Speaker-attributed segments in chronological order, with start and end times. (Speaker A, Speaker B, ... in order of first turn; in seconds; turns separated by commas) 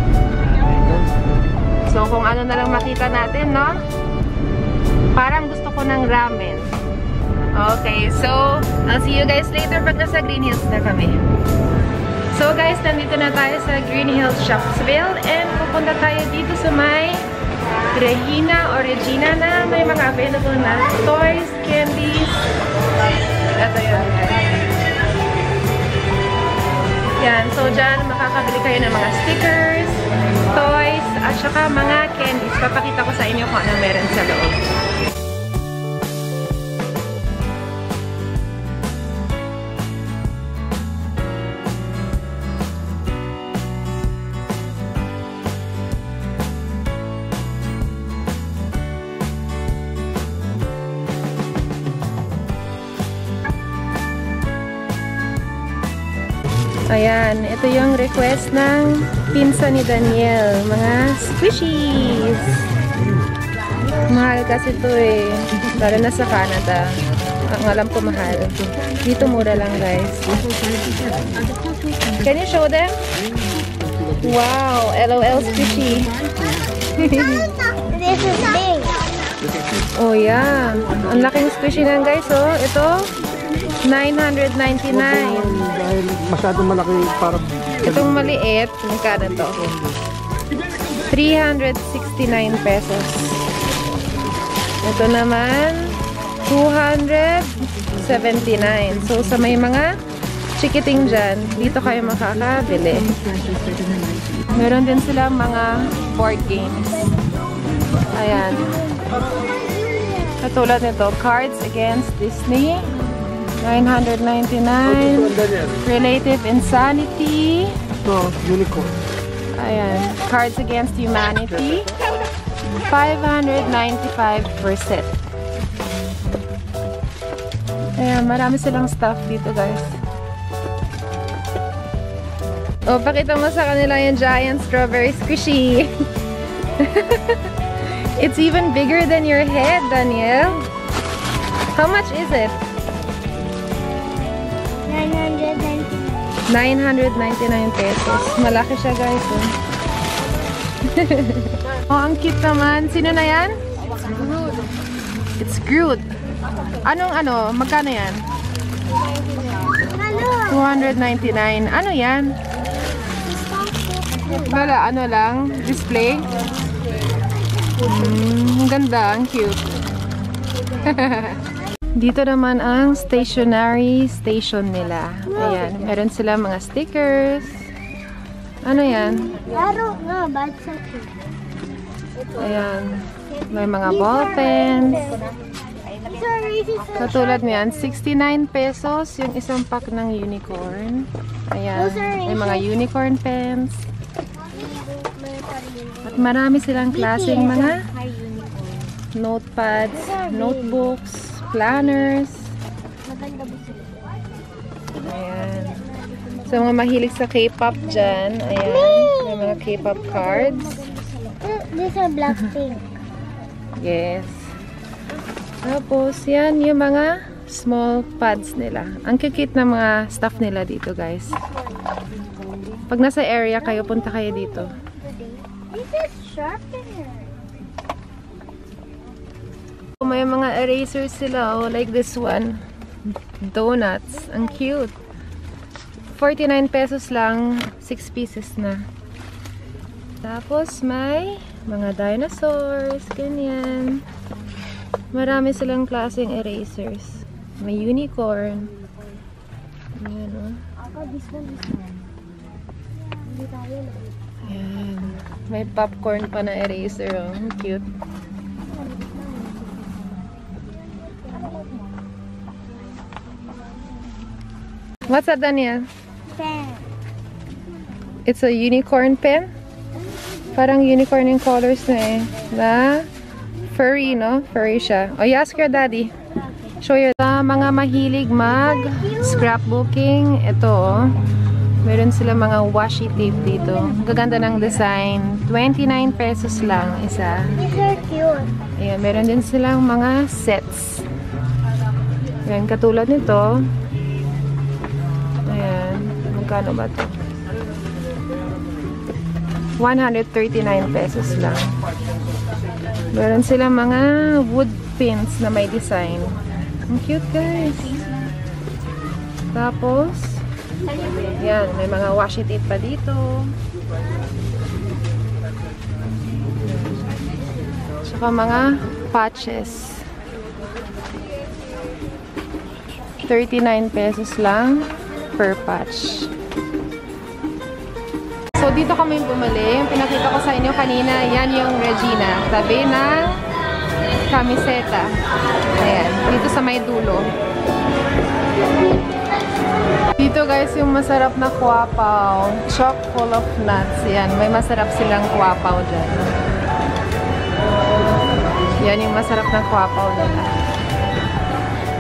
Speaker A: 1.9-3.8, Speaker A: 5.1-6.7, Speaker A: 7.5-11.2, Speaker A: 12.3-17.3, Speaker A: 17.9-22.5, Speaker A: 23.5-24.5, Speaker A: 27.2-34.6, Speaker A: 56.9-62.7, Speaker A: 64.0-70.4, Speaker A: 72.2-73.0, Speaker A: 74.1-76.2, Speaker A: 76.9-77.5, Speaker B: 77.1-79.0, Speaker A: 80.0-83.1, Speaker A: 83.8-86.0, Speaker C: 86.1-87.4, Speaker A: 87.8-89.7, Speaker A: 91.0-93.5, Speaker A: 94.8-99.9, Speaker A: 100.6-103.5, Speaker A: 104.5-107.1, Speaker A: 108.1-108.7, Speaker B: 109.0-110.4, Speaker A: 110.4-113.0, Speaker A: 113.6-117.8, Speaker C: 118.1-118.9, Speaker A: 119.5-122.0, Speaker A: 122.8-125.2, Speaker A: 128.0-130.0, Speaker A: 132.9-135.9, Speaker A: 136.7-137.5, Speaker A: 138.1-140.7, Speaker A: 141.8-142.6, Speaker B: 143.8-146.4, Speaker A: 146.5-149.6, Speaker A: 150.8-154.5, Speaker A: 155.4-156.1, Speaker A: 156.7-158.3, Speaker B: 159.6-160.7, Speaker A: 160.5-162.4, Speaker B: 163.2-164.6, Speaker A: 164.4-166.4, Speaker A: 167.8-169.7, Speaker A: 170.7-171.4, Speaker A: 171.9-177.7, Speaker B: 175.3-175.9, Speaker A: 178.6-179.5, Speaker B: 179.1-181.1, Speaker A: 182.3-185.2, Speaker B: 183.8-185.3, Speaker B: 185.9-188.0, Speaker A: 187.0-193.9, Speaker B: 191.8-192.7, Speaker B: 194.5-196.3, Speaker A: 196.1-197.9, Speaker B: 196.9-198.7, Speaker A: 199.1-202.6, Speaker B: 199.9-200.9, Speaker B: 203.1-204.2, Speaker B: 205.0-206.6, Speaker A: 205.0-205.9, Speaker A: 206.4-210.9, Speaker B: 208.6-212.9, Speaker A: 213.8-214.5, Speaker A: 215.6-221.4, Speaker A: 222.9-224.8, Speaker B: 223.7-227.4, Speaker A: 230.0-232.6, Speaker A: 233.3-234.9, Speaker A: 236.1-238.8, Speaker A: 240.2-244.1, Speaker A: 245.1-248.7, Speaker A: 250.0-250.7, Speaker B: 250.8-251.8, Speaker B: 253.3-254.1, Speaker A: 254.4-257.9, Speaker A: 265.1-265.9, Speaker B: 266.3-266.9, Speaker A: 268.2-269.5, Speaker A: 270.5-273.1, Speaker A: 273.7-276.1, Speaker A: 276.8-281.2, Speaker B: 278.5-279.6, Speaker A: 281.8-287.6, Speaker B: 287.6-288.6, Speaker A: 288.8-291.1, Speaker A: 292.4-293.7, Speaker A: 295.4-297.2, Speaker A: 299.8-301.7, Speaker A: 303.1-308.0, Speaker A: 309.5-310.4, Speaker A: 311.4-313.6, Speaker A: 316.6-317.0, Speaker A: 318.0-320.1, Speaker A: 323.2-326.3, Speaker A: 328.5-333.4, Speaker A: 334.3-335.1, Speaker A: 335.8-337.3, Speaker A: 340.2-346.4, Speaker A: 348.8-350.6